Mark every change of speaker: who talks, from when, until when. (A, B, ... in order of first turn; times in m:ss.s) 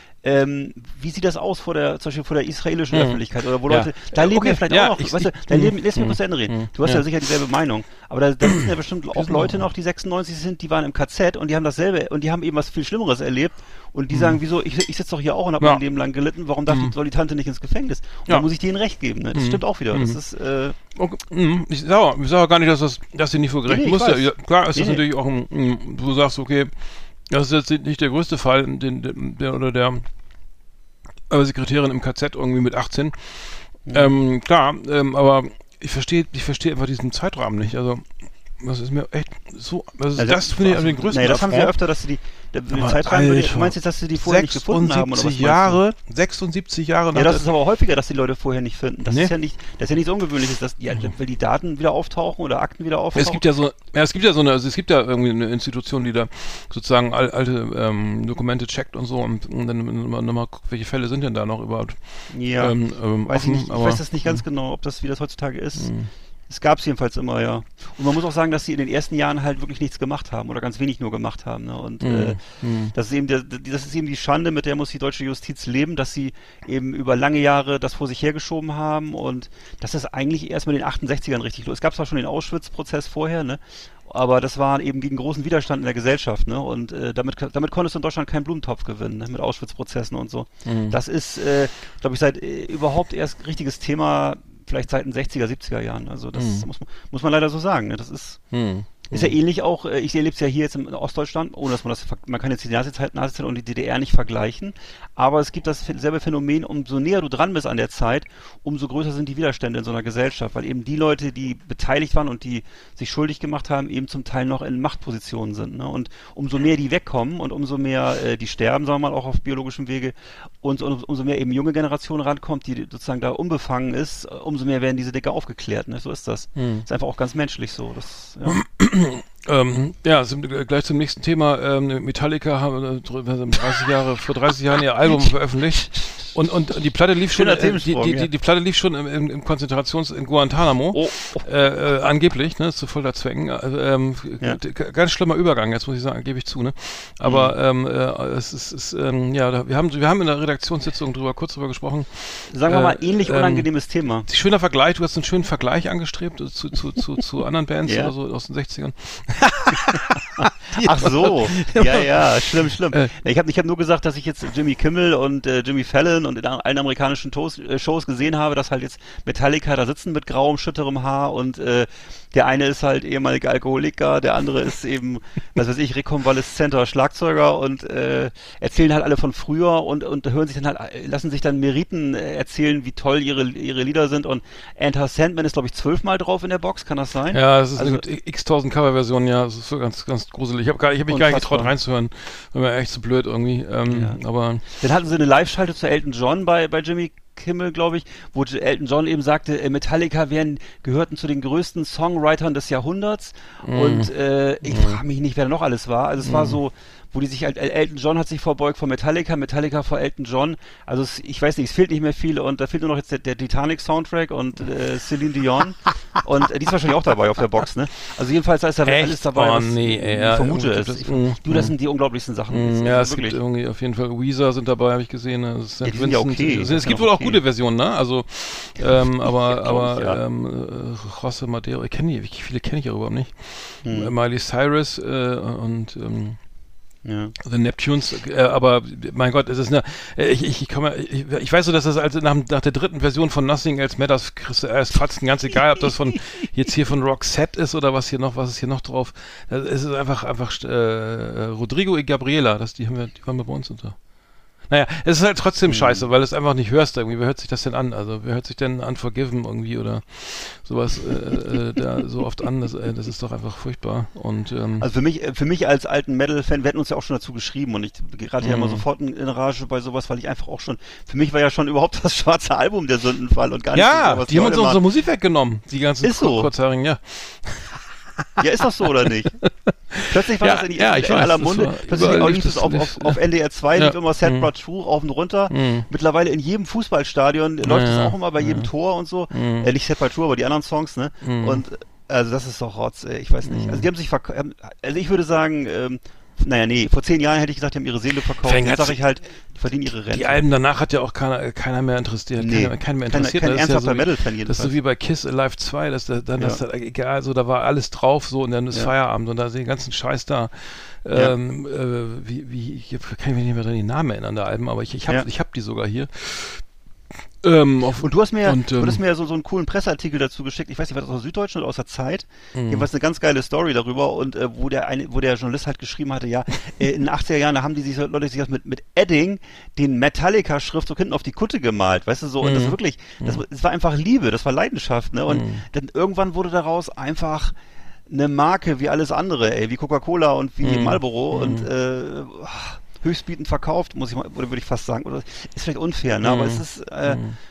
0:00.2-0:20.7 A
0:02.9-0:07.0 B
0:09.1-0:09.6 B
0:14.1-0:14.4 B
0:16.7-0:16.9 B
0:19.3-0:20.2 B
0:20.9-0:30.0 B
0:23.7-0:25.0 A
0:31.3-0:41.7 B
0:33.8-0:34.1 A
0:40.2-0:45.8 A
0:42.7-0:47.5 B
0:47.1-0:53.4 A
0:49.1-0:49.3 B
0:53.1-1:04.4 B
1:02.3-1:05.9 A
1:05.8-1:06.1 B
1:06.5-1:38.4 A
1:12.0-1:12.9 B
1:30.6-1:31.0 B
1:36.3-1:36.6 B
1:38.5-1:39.4 B
1:39.1-2:08.6 A
2:06.6-2:06.8 B
2:08.4-2:33.7 B
2:17.3-2:18.3 A
2:20.9-2:21.4 A
2:27.2-2:27.5 A
2:32.5-2:34.3 A
2:34.3-2:43.1 B
2:37.8-2:38.1 A
2:40.7-3:08.0 A
3:07.3-3:14.6 B
3:11.1-3:11.7 A
3:13.9-3:43.4 A
3:23.6-3:24.1 B
3:24.6-3:25.0 B
3:26.2-3:26.6 B
3:38.8-3:41.7 B
3:42.5-3:56.4 B
3:45.8-3:47.4 A
3:49.3-3:50.2 A
3:53.8-3:54.1 A
3:57.0-3:57.3 A
3:57.4-4:14.0 B
4:14.7-4:24.9 B
4:15.7-4:16.0 A
4:24.8-4:34.8 A
4:28.4-4:28.8 B
4:33.7-4:37.9 B
4:36.0-4:36.5 A
4:38.4-4:39.4 A
4:39.4-4:43.2 B
4:40.0-5:00.4 A
4:43.7-4:44.5 B
4:45.5-4:45.9 B
4:47.6-4:48.7 B
4:49.3-4:49.7 B
4:51.2-4:51.6 B
4:53.4-4:53.9 B
4:58.4-4:59.0 B
5:00.0-5:16.7 B
5:02.4-5:04.7 A
5:17.4-5:19.0 B
5:18.0-5:37.5 A
5:22.5-5:22.9 B
5:32.4-5:33.4 B
5:35.3-5:35.6 B
5:38.1-5:47.2 A
5:40.6-5:41.7 B
5:46.2-5:47.4 B